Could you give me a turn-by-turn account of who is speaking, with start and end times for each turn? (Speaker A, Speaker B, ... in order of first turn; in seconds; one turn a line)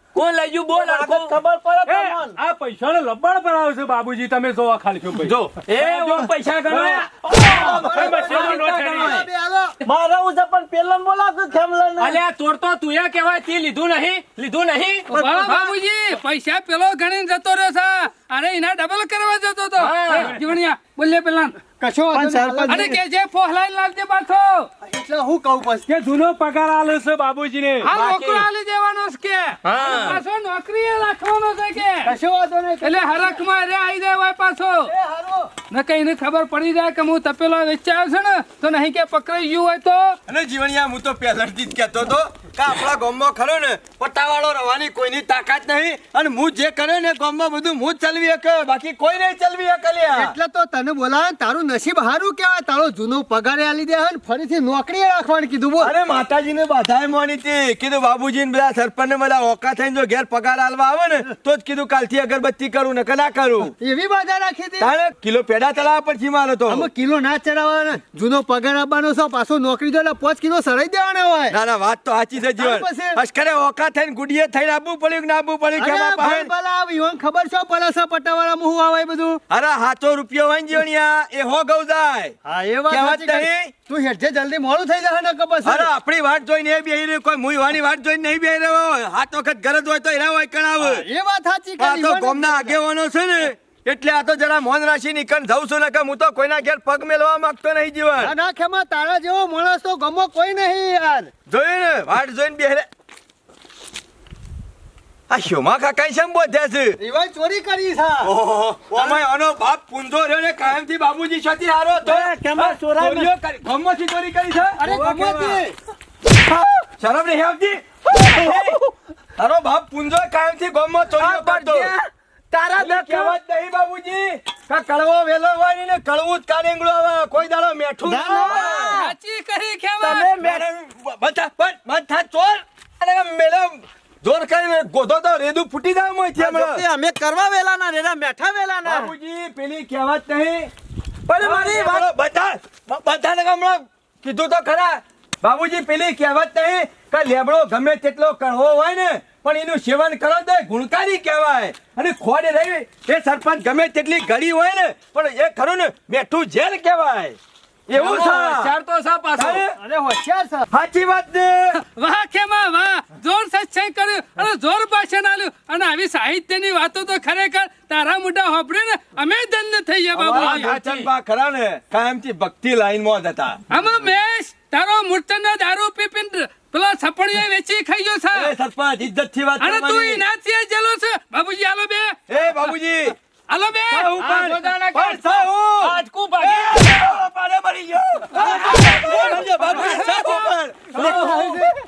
Speaker A: 0.1-1.3
Speaker B: 0.7-2.4
Speaker C: 1.9-9.2
Speaker A: 5.2-7.1
Speaker D: 7.3-9.8
Speaker E: 7.3-7.9
Speaker A: 8.1-9.2
Speaker B: 9.8-12.2
Speaker A: 12.0-15.1
Speaker F: 15.1-21.5
Speaker B: 15.1-15.7
Speaker A: 19.8-20.4
Speaker C: 20.1-20.4
Speaker D: 21.8-22.9
Speaker B: 22.1-23.0
Speaker F: 22.7-24.7
Speaker D: 24.8-25.9
Speaker C: 25.9-27.9
Speaker F: 27.8-32.1
Speaker A: 27.9-28.4
Speaker A: 29.6-30.2
Speaker D: 32.0-33.4
Speaker F: 32.8-34.9
Speaker D: 34.9-35.5
Speaker F: 35.7-40.1
Speaker E: 40.3-50.3
Speaker D: 50.1-55.9
Speaker E: 55.8-63.7
Speaker D: 63.8-64.9
Speaker E: 64.8-66.9
Speaker D: 66.7-71.6
Speaker E: 71.5-76.5
Speaker D: 72.6-73.2
Speaker D: 75.8-79.4
Speaker E: 79.5-82.3
Speaker D: 82.4-85.9
Speaker E: 82.9-83.7
Speaker E: 85.6-91.0
Speaker D: 90.8-92.8
Speaker E: 91.8-98.3
Speaker D: 98.2-101.3
Speaker E: 101.5-102.9
Speaker E: 105.3-107.0
Speaker D: 107.0-108.3
Speaker E: 108.2-115.6
Speaker B: 112.0-113.3
Speaker D: 114.8-115.7
Speaker E: 117.0-118.8
Speaker B: 118.1-118.9
Speaker E: 119.4-121.9
Speaker B: 121.1-123.4
Speaker E: 122.8-129.0
Speaker B: 128.0-129.1
Speaker F: 128.5-130.3
Speaker B: 130.0-130.6
Speaker E: 130.1-136.8
Speaker B: 136.4-139.1
Speaker E: 138.8-140.7
Speaker B: 141.3-142.1
Speaker E: 141.3-157.3
Speaker E: 157.9-158.7
Speaker A: 157.9-159.6
Speaker E: 159.3-159.8
Speaker D: 159.8-160.7
Speaker E: 160.7-161.8
Speaker F: 161.8-170.7
Speaker E: 170.1-173.6
Speaker A: 170.3-171.1
Speaker F: 173.7-178.5
Speaker E: 178.3-180.2
Speaker F: 179.6-182.2
Speaker E: 182.3-183.2
Speaker F: 183.5-184.2
Speaker E: 183.9-191.7
Speaker A: 184.2-187.0
Speaker C: 184.2-184.5
Speaker F: 188.4-190.5
Speaker A: 190.9-191.3
Speaker D: 190.9-191.6
Speaker B: 191.0-191.6